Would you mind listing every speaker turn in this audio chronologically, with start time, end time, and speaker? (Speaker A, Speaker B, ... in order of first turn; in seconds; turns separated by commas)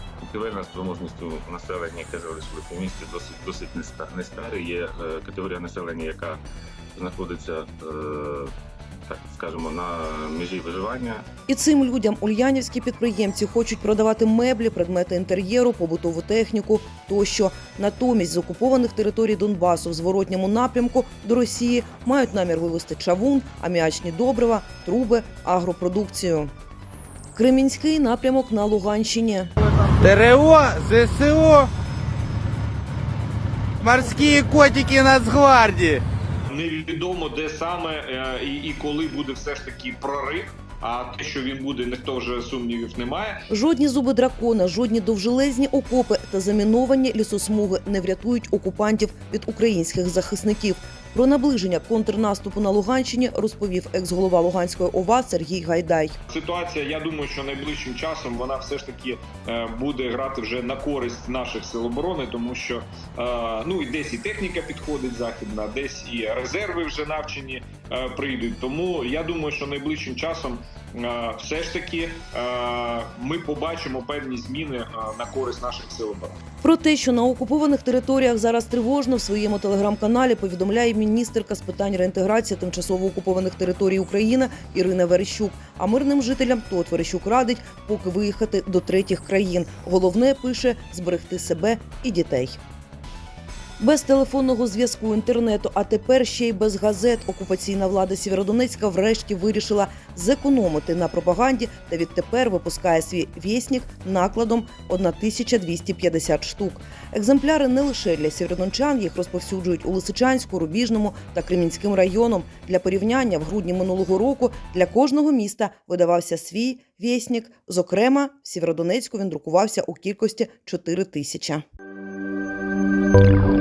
Speaker A: 0.2-6.4, Speaker A: 7.0-8.5, Speaker A: 9.1-11.3, Speaker B: 11.5-26.5, Speaker B: 27.4-29.5, Speaker C: 30.0-31.7, Speaker C: 33.8-36.0, Speaker D: 36.5-43.4, Speaker B: 43.5-56.2, Speaker D: 56.3-76.4, Speaker B: 76.6-92.6, Speaker B: 93.8-121.6